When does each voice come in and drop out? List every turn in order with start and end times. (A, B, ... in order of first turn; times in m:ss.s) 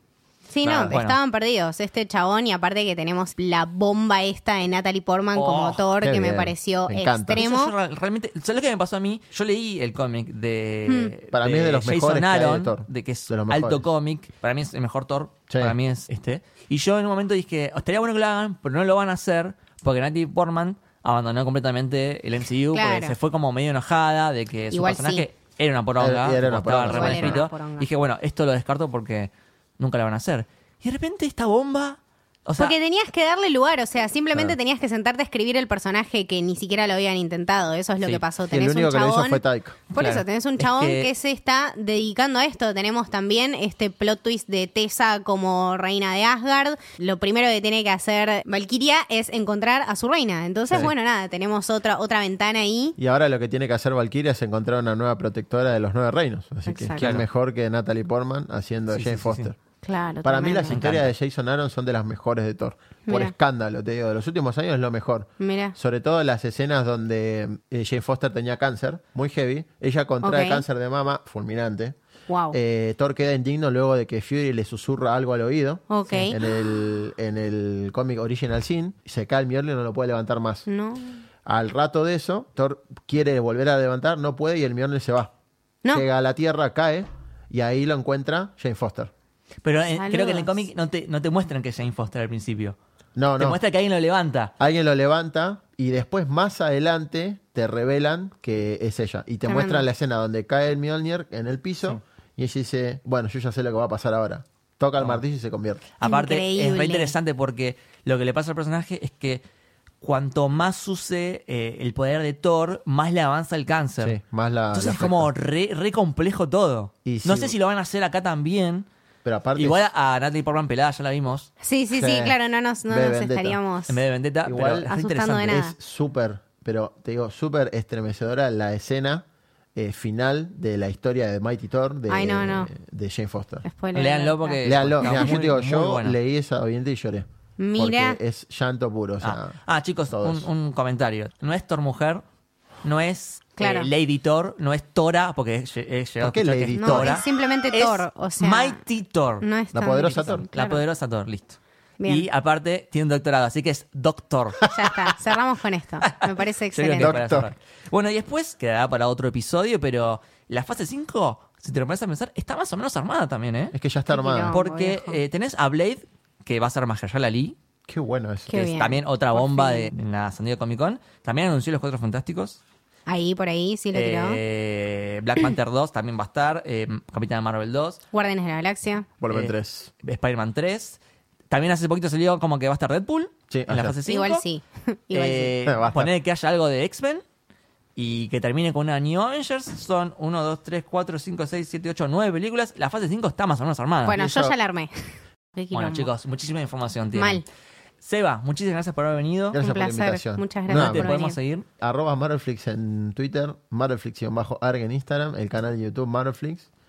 0:00.5-0:07.7 A
0:00.6-0:01.2 B
0:05.4-0:05.9 B
0:06.0-0:07.5 C
0:07.4-0:32.7 B
0:10.9-0:11.1 A
0:11.3-0:13.9 C
0:15.5-0:15.8 C
0:22.7-0:23.2 A
0:24.7-0:25.3 A
0:26.0-0:27.4 C
0:26.9-0:27.9 A
0:32.6-0:53.0 A
0:38.5-0:39.8 C
0:40.0-0:41.1 B
0:53.0-0:59.6 C
0:56.7-0:57.1 A
0:57.0-0:57.3 B
0:58.9-0:59.5 B
0:59.8-1:00.8 A
1:00.2-1:12.0 C
1:00.7-1:01.1 B
1:03.1-1:03.3 A
1:05.4-1:05.8 A
1:10.2-1:10.6 A
1:12.3-1:12.6 A
1:12.5-1:20.7 C
1:15.9-1:16.4 A
1:20.7-1:21.2 A
1:21.5-1:25.3 C
1:25.9-1:29.1 C
1:29.6-1:32.8 B
1:30.0-1:30.5 A
1:33.2-1:33.6 C
1:33.4-1:34.5 B
1:34.6-1:45.9 C
1:39.5-1:39.9 A
1:46.0-1:49.4 B
1:46.0-1:47.2 A
1:50.0-1:54.2 B
1:54.0-1:55.3 C
1:54.7-1:58.9 B
1:57.0-1:57.6 C
1:59.2-1:59.8 C
1:59.6-2:01.5 B
2:01.6-2:04.0 A
2:02.0-2:02.4 C
2:02.9-2:03.6 C
2:03.9-2:05.6 B
2:04.4-2:04.9 C
2:04.9-2:05.8 A
2:05.5-2:13.6 C
2:12.1-2:12.7 A
2:13.6-2:15.4 A
2:13.9-2:16.2 B
2:14.6-2:19.6 C
2:17.6-2:18.2 A
2:19.2-2:22.2 B
2:20.1-2:20.5 C
2:22.8-2:29.4 B
2:23.6-2:23.9 A
2:26.2-2:27.2 C
2:26.7-2:28.8 A
2:29.4-2:30.8 A
2:29.7-2:30.4 C
2:30.5-2:34.6 B
2:32.0-2:32.2 A
2:34.7-2:37.2 A
2:36.0-2:43.8 B
2:37.0-2:37.5 C
2:43.7-2:44.6 C
2:44.1-2:45.2 A
2:44.5-2:47.6 B
2:47.9-2:48.7 C
2:48.5-2:49.9 A
2:48.6-2:52.6 B
2:53.1-2:54.4 A
2:53.9-2:58.0 B
2:58.1-2:59.1 A
2:59.2-2:59.9 C
2:59.3-3:01.0 B
3:01.5-3:04.4 B
3:03.5-3:04.0 C
3:04.0-3:05.6 A
3:05.1-3:07.2 B
3:05.6-3:06.1 C
3:08.0-3:14.4 B
3:14.0-3:16.1 A
3:14.2-3:14.5 C
3:15.7-3:17.4 B
3:17.2-3:17.4 A
3:18.0-3:19.6 B
3:19.5-3:21.1 C
3:19.6-3:21.4 A
3:20.7-3:21.7 B
3:21.8-3:26.7 C